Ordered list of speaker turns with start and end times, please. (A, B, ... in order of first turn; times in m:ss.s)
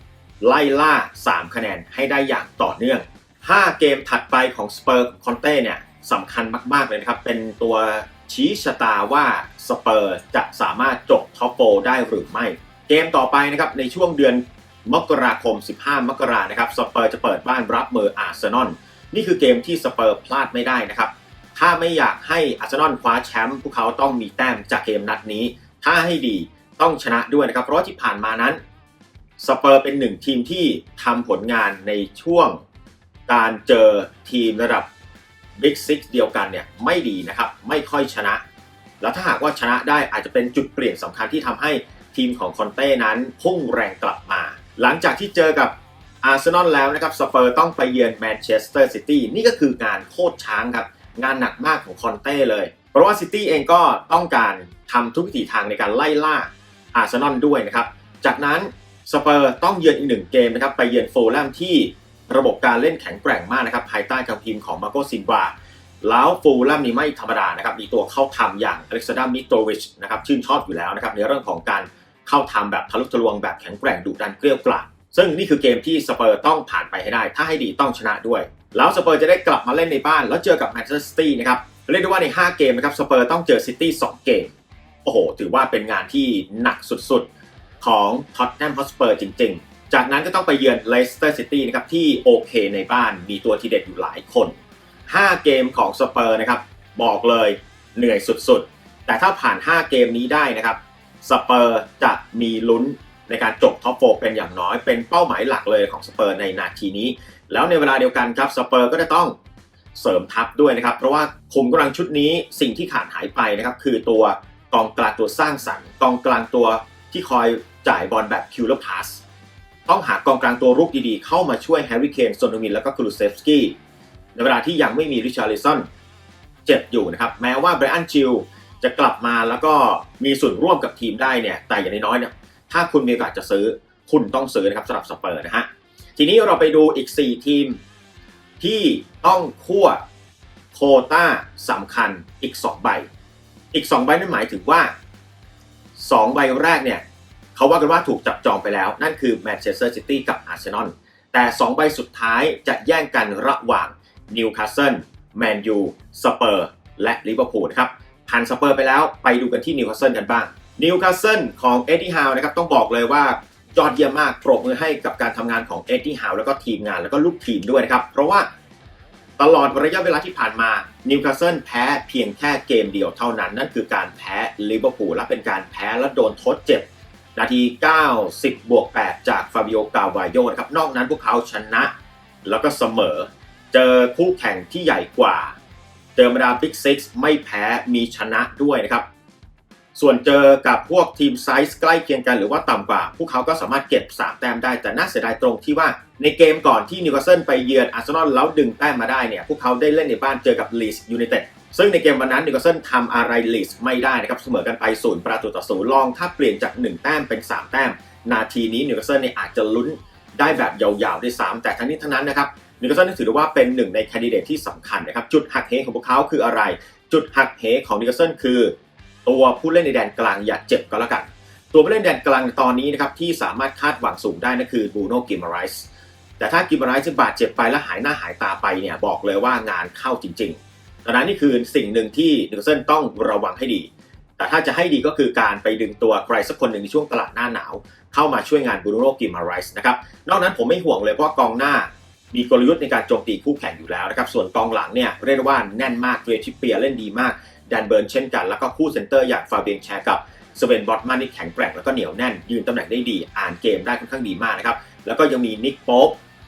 0:00.4-0:28.6 A
0:29.4-0:32.6 A
0:33.3-0:34.9 A
0:35.6-0:38.4 A
0:39.0-1:24.5 A
1:25.0-1:27.3 A
1:27.8-1:34.6 A
1:35.1-1:49.4 A
1:50.0-1:59.2 A
1:59.9-2:03.8 A
2:04.4-2:05.9 A
2:06.7-2:17.8 A
2:18.6-2:20.0 A
2:20.7-2:23.1 A
2:23.7-2:24.9 A
2:26.0-2:27.0 A
2:27.6-2:48.5 A
2:49.4-3:01.9 A
3:02.4-3:05.6 A
3:06.2-3:09.0 A
3:10.0-3:38.7 A
3:39.3-3:45.9 A
3:46.4-4:16.2 A